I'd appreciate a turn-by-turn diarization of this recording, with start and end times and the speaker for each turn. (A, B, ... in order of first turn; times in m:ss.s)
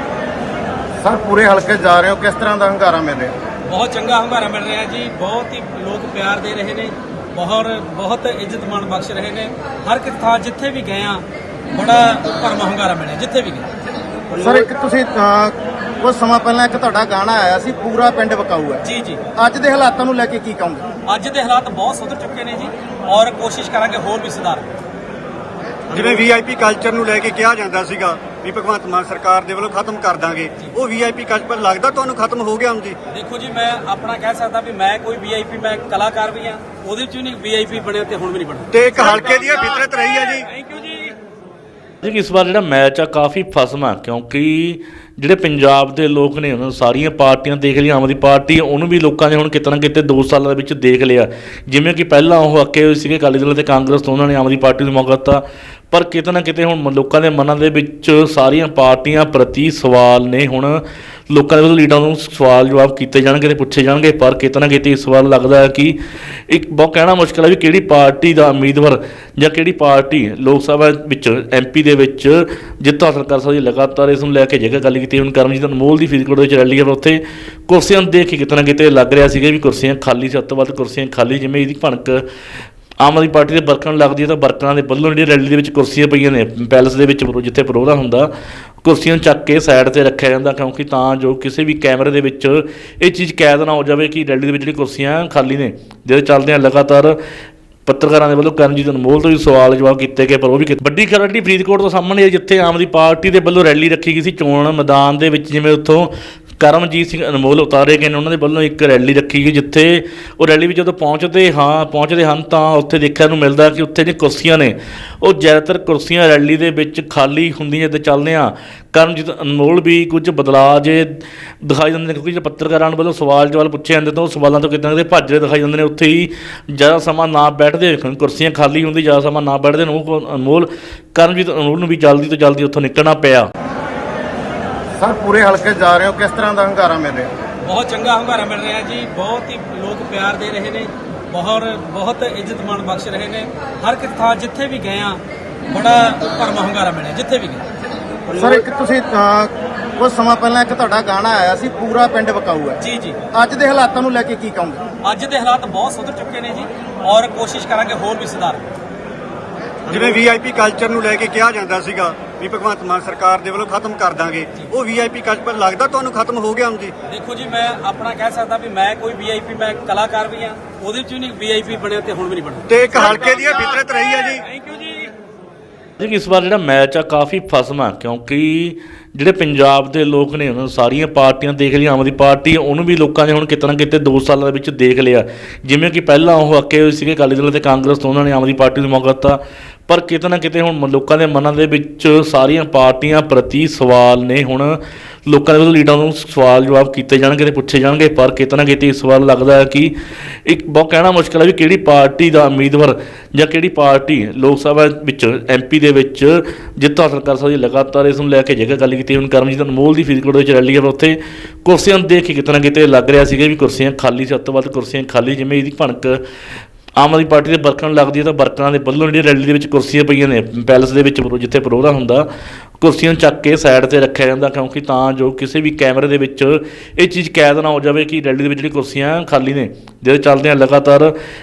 0:01.0-0:03.3 A
0:03.7-0:13.7 B
0:14.3-0:14.7 B
0:14.4-0:18.8 A
0:18.8-0:19.2 B
0:19.4-0:20.9 A
0:21.1-0:24.7 B
0:25.9-0:33.0 C
0:33.1-0:39.8 B
0:38.7-0:40.5 C
0:40.5-0:41.2 B
0:42.0-1:06.0 D
1:06.5-1:22.2 D
1:23.0-1:28.3 D
1:28.8-1:37.2 D
1:37.9-2:13.5 D
2:15.0-2:17.3 A
2:17.6-2:27.6 B
2:28.3-2:28.6 B
2:28.3-2:32.8 A
2:32.8-2:33.2 B
2:33.3-2:34.8 A
2:35.0-2:38.7 B
2:39.9-2:46.9 C
2:47.1-2:55.1 B
2:52.7-2:54.4 C
2:56.0-3:19.9 D
3:20.5-3:36.2 D
3:37.0-3:42.3 D
3:42.8-3:51.2 D